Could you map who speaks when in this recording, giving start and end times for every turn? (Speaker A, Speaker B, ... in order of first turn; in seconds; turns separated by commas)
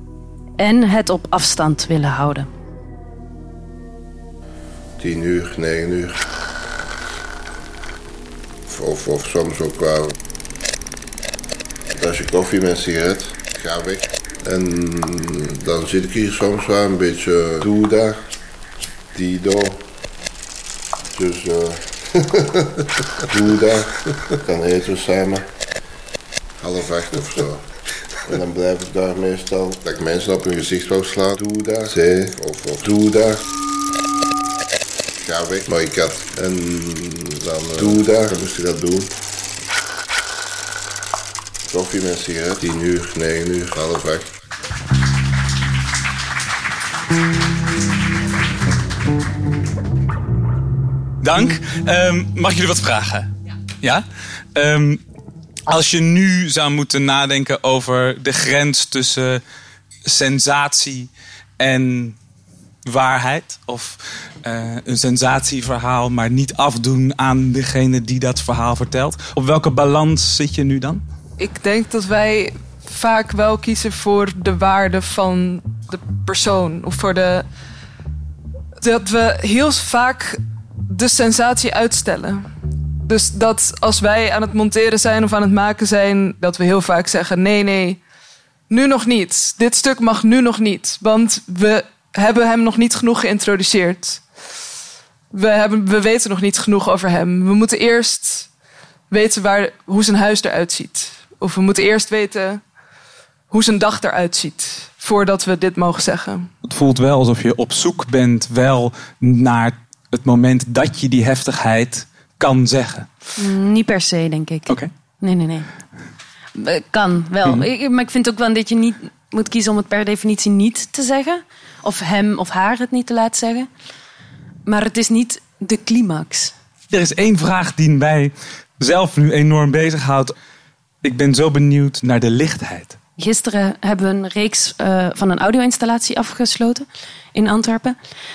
Speaker A: 0.6-2.5, Speaker B: 5.0-6.2, Speaker B: 8.7-10.1, Speaker B: 11.9-18.2, Speaker B: 19.1-19.8, Speaker B: 21.1-25.4, Speaker B: 26.6-27.6, Speaker B: 28.2-33.4, Speaker B: 35.2-39.1, Speaker B: 41.7-44.3, Speaker C: 51.2-53.3, Speaker C: 53.8-55.0, Speaker C: 55.7-59.4, Speaker C: 60.0-62.1, Speaker C: 62.8-71.0, Speaker D: 71.4-77.5, Speaker D: 78.8-82.5, Speaker D: 83.0-88.0, Speaker D: 88.7-94.2, Speaker D: 95.3-98.5, Speaker D: 99.1-102.6, Speaker D: 103.5-106.5, Speaker C: 106.6-113.1, Speaker A: 113.4-115.7, Speaker A: 116.5-123.7, Speaker A: 124.7-126.5, Speaker C: 126.9-130.3, Speaker C: 131.0-133.0, Speaker A: 133.2-138.0